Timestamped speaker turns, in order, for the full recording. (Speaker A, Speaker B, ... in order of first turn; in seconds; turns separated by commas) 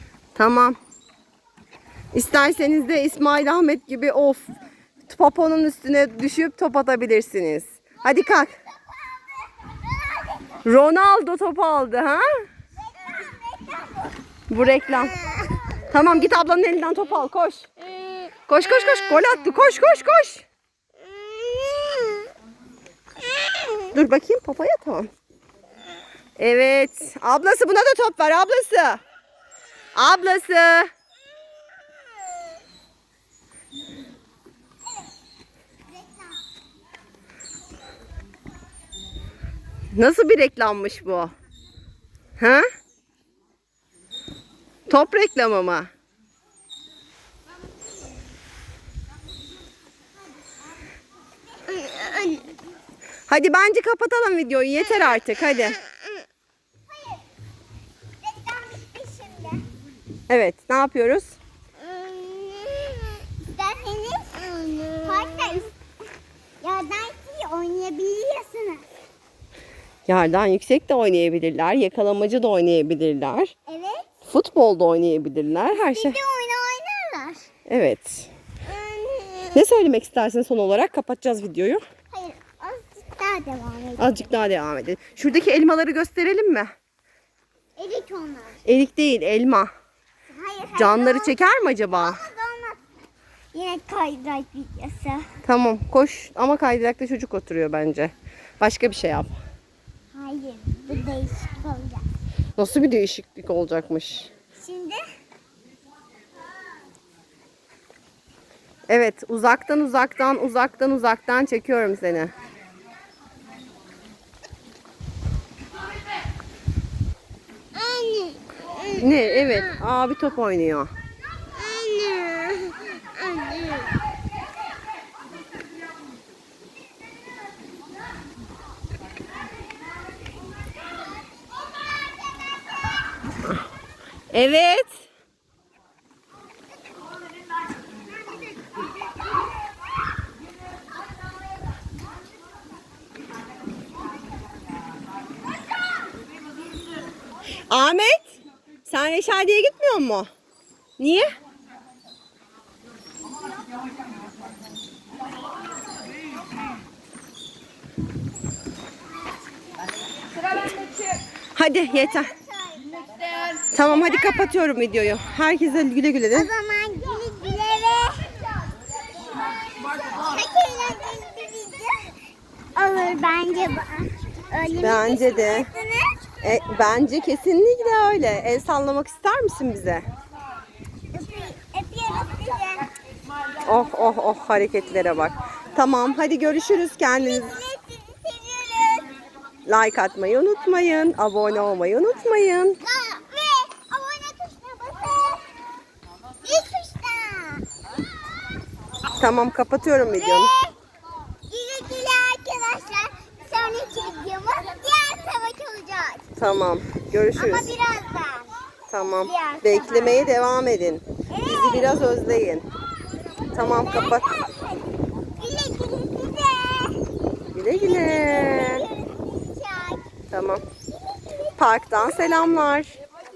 Speaker A: 0.3-0.8, Speaker A: 2.1-4.5, Speaker A: 5.1-8.6, Speaker B: 9.6-10.6, Speaker A: 10.7-12.4, Speaker B: 12.9-14.2, Speaker A: 14.5-15.2, Speaker B: 15.1-15.8, Speaker A: 15.9-17.7, Speaker A: 18.5-20.4, Speaker B: 21.7-22.2, Speaker A: 23.9-25.1, Speaker A: 26.4-29.0, Speaker A: 29.9-30.9, Speaker B: 35.9-36.4, Speaker A: 39.9-41.3, Speaker A: 42.4-42.7, Speaker A: 44.9-45.9, Speaker B: 51.5-52.6, Speaker A: 53.3-55.8, Speaker B: 56.9-57.2, Speaker B: 58.2-59.6, Speaker A: 60.3-61.4, Speaker B: 61.8-65.8, Speaker B: 66.6-68.9, Speaker A: 70.1-73.5, Speaker B: 73.7-74.1, Speaker A: 74.2-76.2, Speaker B: 75.7-77.5, Speaker A: 77.7-78.3, Speaker B: 78.7-79.6, Speaker A: 79.5-81.8, Speaker B: 82.1-84.3, Speaker A: 84.0-86.7, Speaker B: 87.8-88.6, Speaker A: 88.7-89.7, Speaker B: 90.3-92.8, Speaker A: 90.8-92.2, Speaker B: 93.5-95.3, Speaker A: 95.4-99.3, Speaker B: 100.1-102.0, Speaker A: 102.6-104.3, Speaker B: 104.6-105.0, Speaker A: 108.9-112.3, Speaker B: 117.8-119.8, Speaker A: 119.0-120.9, Speaker B: 121.5-124.0, Speaker B: 130.9-133.0, Speaker A: 134.3-135.1, Speaker A: 147.7-148.3, Speaker A: 148.9-150.3, Speaker A: 151.0-151.3, Speaker A: 161.6-162.3, Speaker B: 161.9-163.7, Speaker A: 163.7-166.5, Speaker B: 166.3-172.2, Speaker B: 172.8-176.2, Speaker A: 174.8-175.7, Speaker A: 176.4-180.1, Speaker B: 181.1-182.9, Speaker A: 183.6-187.6, Speaker B: 187.0-189.2, Speaker A: 189.7-192.8, Speaker B: 192.8-195.5, Speaker B: 196.4-197.7, Speaker A: 199.2-200.5, Speaker B: 200.2-200.8, Speaker B: 201.5-206.3, Speaker A: 206.4-207.7, Speaker B: 207.3-208.6, Speaker A: 208.9-212.7, Speaker B: 209.2-210.3, Speaker B: 211.3-212.1, Speaker B: 213.5-217.1, Speaker A: 213.5-214.3, Speaker A: 217.6-218.8, Speaker B: 217.7-220.0, Speaker A: 220.3-220.6, Speaker B: 221.1-221.5, Speaker A: 221.6-223.0